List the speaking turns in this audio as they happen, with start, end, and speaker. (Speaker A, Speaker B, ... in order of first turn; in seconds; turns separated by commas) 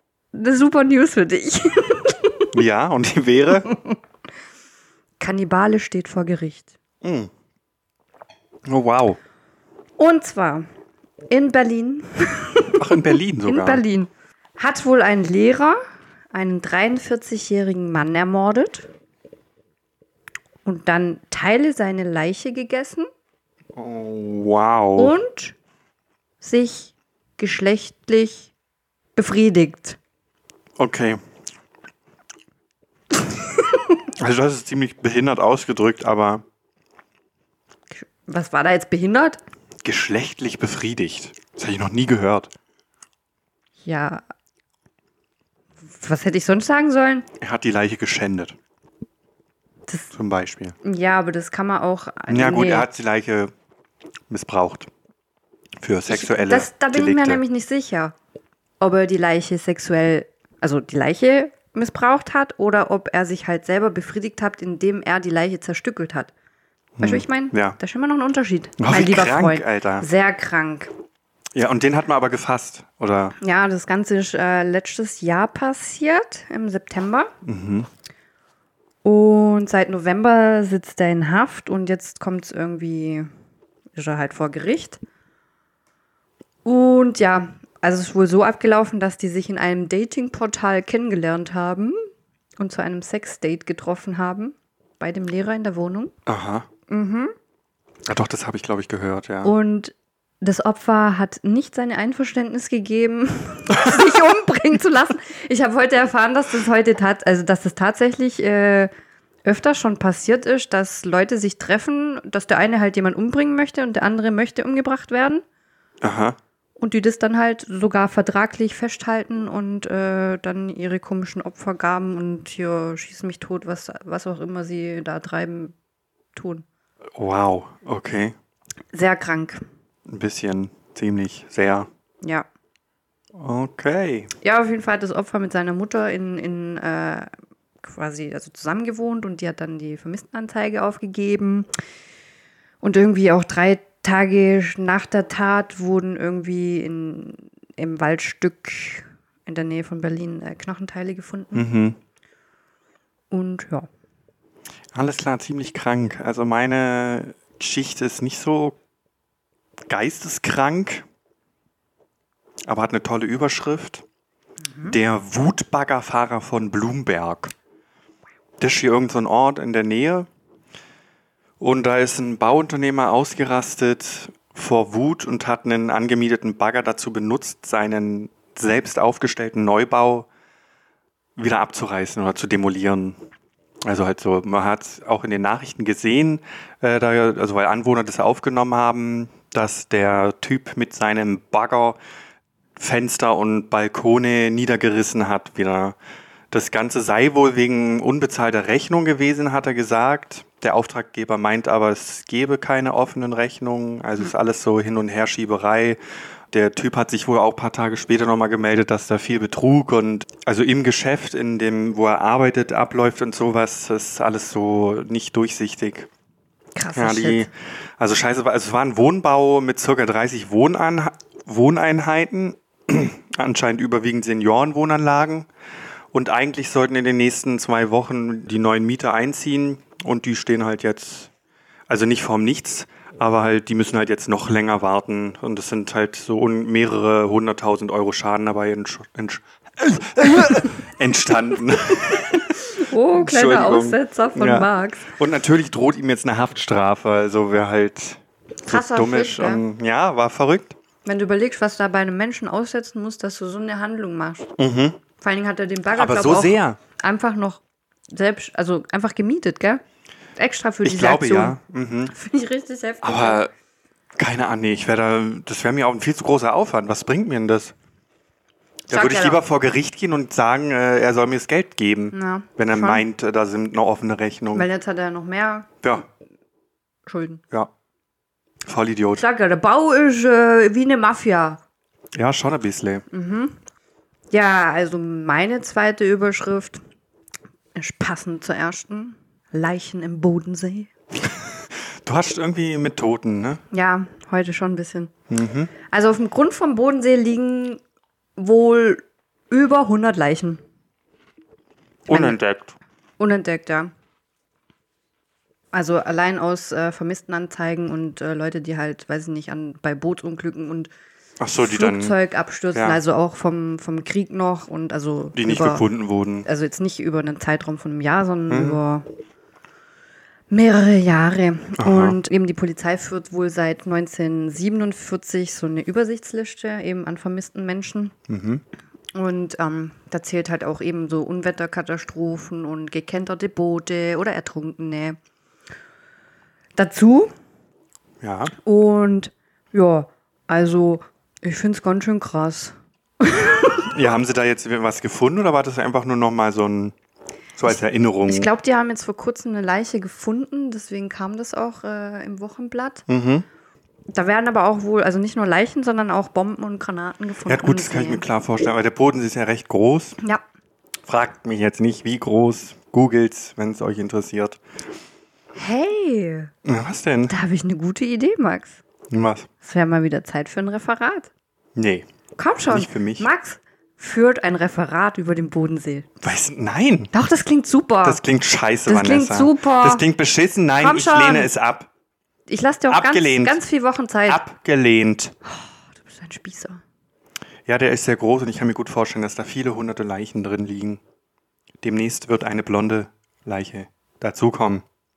Speaker A: 0.3-2.5, Speaker B: 2.5-3.7, Speaker A: 5.2-6.7, Speaker B: 7.0-7.3, Speaker B: 8.7-9.2, Speaker A: 10.0-10.7, Speaker A: 11.3-15.8, Speaker B: 12.8-13.8, Speaker A: 16.3-18.9, Speaker A: 20.6-23.1, Speaker B: 23.8-25.1, Speaker A: 25.0-25.6, Speaker A: 26.4-28.5, Speaker A: 29.2-30.0, Speaker B: 30.8-31.2, Speaker B: 34.2-36.4, Speaker A: 37.9-39.4, Speaker B: 39.8-42.5, Speaker A: 43.8-44.2, Speaker A: 45.8-47.3, Speaker B: 47.4-48.6, Speaker A: 49.9-50.1, Speaker B: 50.1-50.8, Speaker A: 50.8-52.9, Speaker B: 52.3-53.5, Speaker B: 54.3-54.9, Speaker B: 55.8-57.4, Speaker A: 56.1-58.1, Speaker A: 58.8-66.3, Speaker B: 67.0-67.8, Speaker A: 67.0-70.9, Speaker B: 68.8-70.1, Speaker B: 71.5-73.4, Speaker A: 73.4-77.3, Speaker B: 77.4-77.9, Speaker A: 79.0-83.3, Speaker A: 84.0-85.0, Speaker A: 86.7-92.0, Speaker A: 92.6-96.1, Speaker B: 96.3-96.7, Speaker A: 96.9-97.3, Speaker B: 98.1-99.5, Speaker A: 99.4-108.9, Speaker A: 109.5-115.4, Speaker B: 116.0-116.4, Speaker A: 116.8-125.7, Speaker A: 126.3-126.7, Speaker B: 127.2-128.3, Speaker A: 128.9-129.6, Speaker B: 130.1-131.9, Speaker A: 132.2-132.5, Speaker B: 133.4-134.3, Speaker A: 134.4-137.3, Speaker A: 137.8-141.7, Speaker A: 142.8-151.7, Speaker B: 151.5-152.0, Speaker A: 153.3-153.9, Speaker B: 154.9-158.8, Speaker B: 159.9-161.1, Speaker B: 162.7-164.0, Speaker B: 164.8-167.5, Speaker B: 168.6-170.3, Speaker B: 171.6-180.3, Speaker B: 181.4-183.2, Speaker B: 183.8-192.0, Speaker B: 192.8-196.0, Speaker B: 196.5-206.0, Speaker B: 206.5-216.1, Speaker A: 216.8-217.5, Speaker B: 216.9-225.5, Speaker B: 226.1-231.3, Speaker B: 231.9-250.8, Speaker A: 242.1-245.1, Speaker A: 248.7-249.6, Speaker A: 251.1-254.5, Speaker B: 254.6-255.0, Speaker A: 255.2-259.8, Speaker B: 255.9-256.8, Speaker A: 260.4-261.6, Speaker B: 260.8-262.1, Speaker A: 262.1-263.4, Speaker B: 263.0-263.5, Speaker B: 264.2-267.7, Speaker B: 268.9-274.7, Speaker A: 268.9-269.4, Speaker A: 272.1-273.0, Speaker A: 274.5-275.7, Speaker A: 277.1-277.4, Speaker B: 278.7-279.2, Speaker A: 279.2-281.6, Speaker B: 282.1-283.0, Speaker A: 283.1-283.6, Speaker A: 284.3-286.8, Speaker A: 287.8-290.9, Speaker B: 292.0-293.6, Speaker A: 293.7-295.1, Speaker B: 295.3-295.7, Speaker A: 295.8-297.8, Speaker A: 298.4-300.6, Speaker A: 302.1-302.4, Speaker B: 302.1-302.8, Speaker A: 303.2-303.9, Speaker A: 305.7-310.9, Speaker B: 311.4-312.2, Speaker A: 311.6-315.9, Speaker B: 315.4-316.5, Speaker A: 316.5-319.1, Speaker B: 318.5-318.8, Speaker A: 320.5-328.1, Speaker B: 321.8-322.2, Speaker B: 328.3-328.6, Speaker A: 329.1-335.2, Speaker A: 336.8-337.3, Speaker B: 338.2-338.5, Speaker A: 338.6-343.9, Speaker B: 343.9-346.9, Speaker B: 347.6-348.5, Speaker A: 348.3-353.1, Speaker B: 353.1-353.5, Speaker A: 354.1-358.2, Speaker B: 357.5-360.2, Speaker B: 361.1-364.6, Speaker A: 365.6-366.5, Speaker B: 366.6-367.3, Speaker A: 367.3-368.8, Speaker B: 369.1-369.5, Speaker A: 369.6-371.3, Speaker B: 371.8-372.1, Speaker A: 372.4-376.1, Speaker B: 372.7-373.3, Speaker B: 376.2-377.1, Speaker A: 377.1-378.2, Speaker B: 378.0-381.9, Speaker A: 378.9-380.0, Speaker A: 380.8-381.5, Speaker A: 382.5-384.4, Speaker B: 382.9-383.6, Speaker B: 384.3-385.3, Speaker A: 385.5-386.8, Speaker B: 387.7-391.0, Speaker B: 391.8-394.8